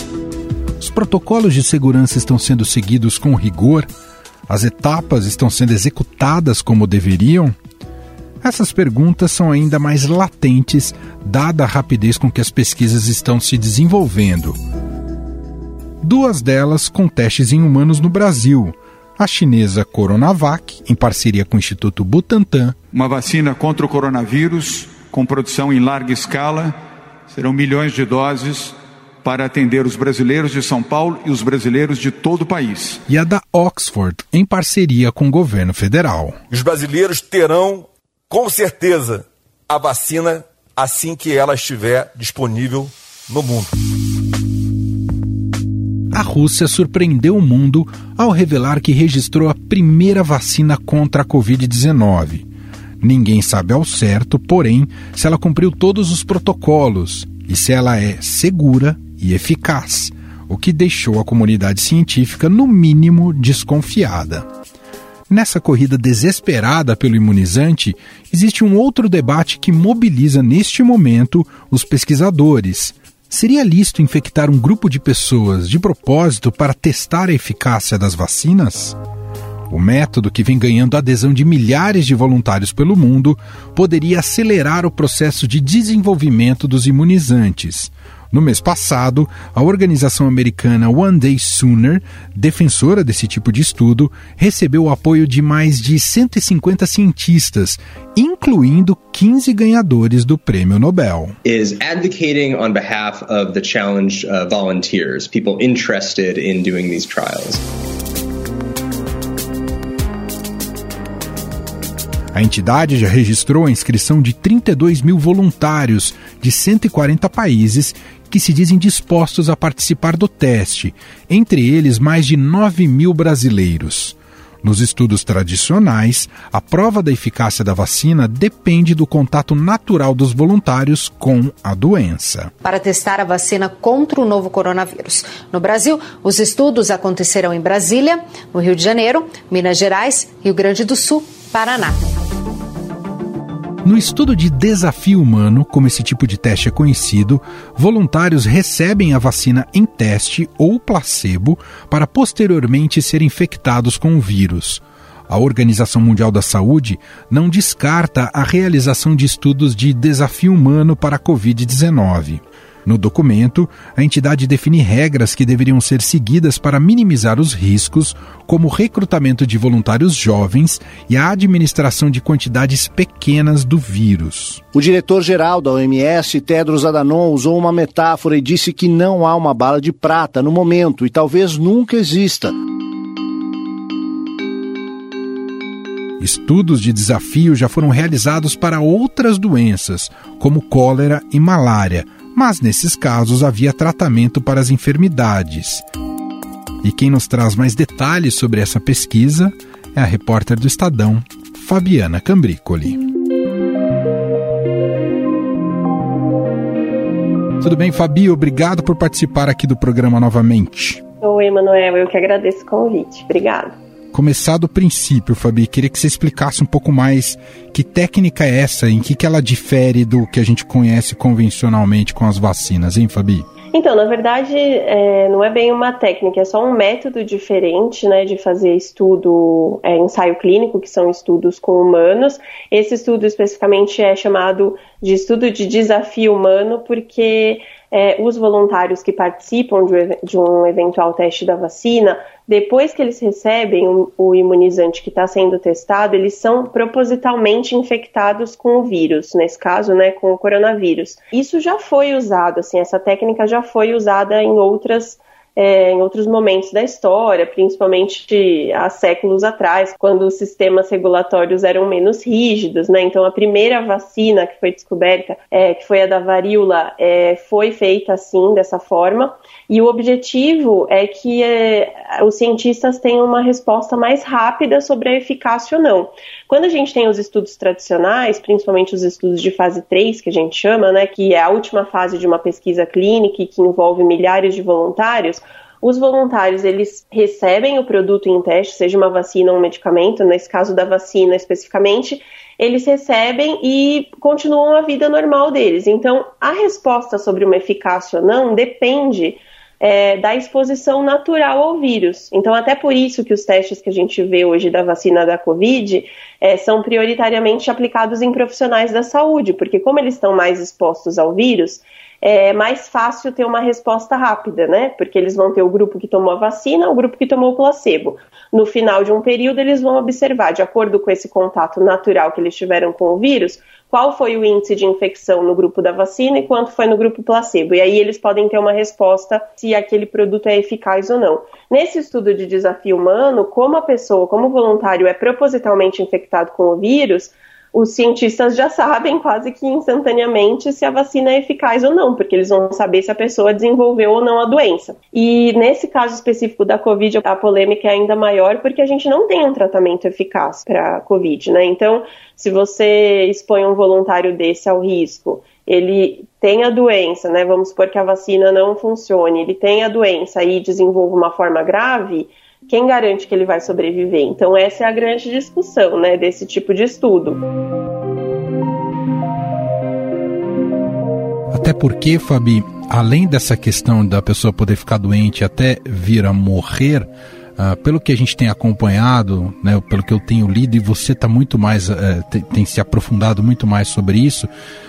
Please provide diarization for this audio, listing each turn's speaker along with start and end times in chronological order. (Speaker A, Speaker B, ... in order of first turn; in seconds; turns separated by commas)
Speaker A: 0.8-3.9, Speaker A: 4.5-7.5, Speaker A: 8.4-14.6, Speaker A: 16.0-22.8, Speaker B: 22.9-26.8, Speaker B: 27.3-33.0, Speaker A: 33.1-36.4, Speaker C: 36.5-43.8, Speaker A: 46.1-52.5, Speaker A: 53.0-64.5, Speaker A: 65.3-79.0, Speaker A: 79.7-101.4, Speaker D: 101.4-107.6, Speaker A: 112.3-132.5, Speaker E: 132.6-142.1, Speaker A: 143.8-174.6, Speaker F: 174.7-182.5, Speaker A: 186.2-195.8, Speaker A: 196.8-203.0, Speaker A: 207.6-211.0, Speaker G: 211.2-213.8, Speaker A: 214.1-223.5, Speaker G: 223.7-367.4, Speaker A: 371.5-384.5